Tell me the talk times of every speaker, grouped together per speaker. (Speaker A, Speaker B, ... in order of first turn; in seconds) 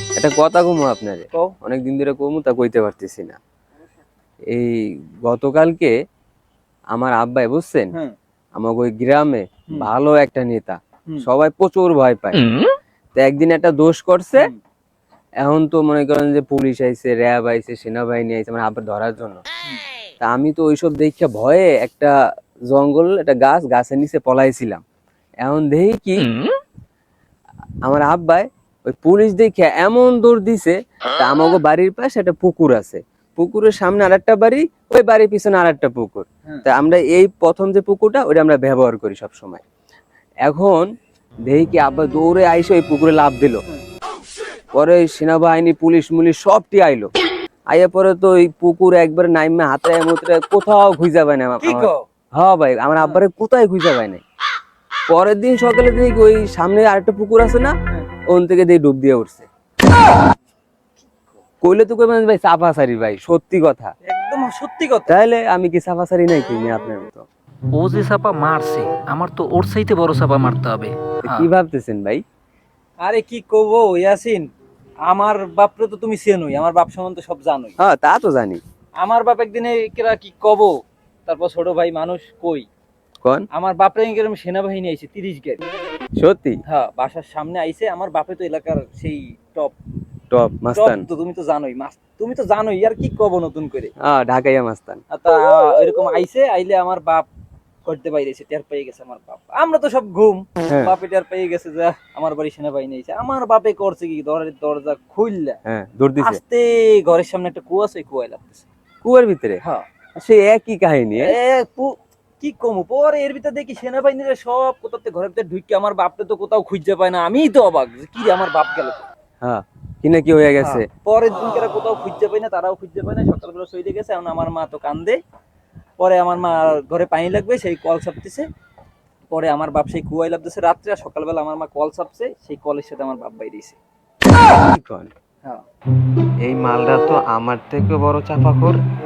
Speaker A: 0.2-3.4, 4.5-5.9, 6.9-7.9, 8.6-12.5, 13.2-14.5, 15.4-19.4, 20.2-22.1, 22.7-24.8, 25.4-26.3, 27.9-39.6, 40.5-40.9, 41.5-43.6, 44.8-47.1, 47.7-54.2, 55.1-57.7, 58.3-59.5, 61.6-63.9, 65.1-67.3, 71.2-72.2, 77.8-78.6, 86.2-86.6, 90.3-91.0, 94.0-95.0, 105.7-106.4, 109.0-109.6, 110.2-111.3, 119.4-120.8, 134.5-135.1, 136.4-138.8
Speaker B: 51.6-52.0, 64.1-65.1, 67.9-70.2, 73.0-74.5, 75.1-77.8, 79.0-80.7, 81.3-82.7, 83.5-85.7, 86.7-89.8, 90.7-93.9, 95.1-97.3, 97.9-105.6, 106.2-108.7, 111.2-119.1, 120.6-125.2, 126.0-128.5, 129.3-133.8
Speaker C: 67.8-68.3, 69.2-70.9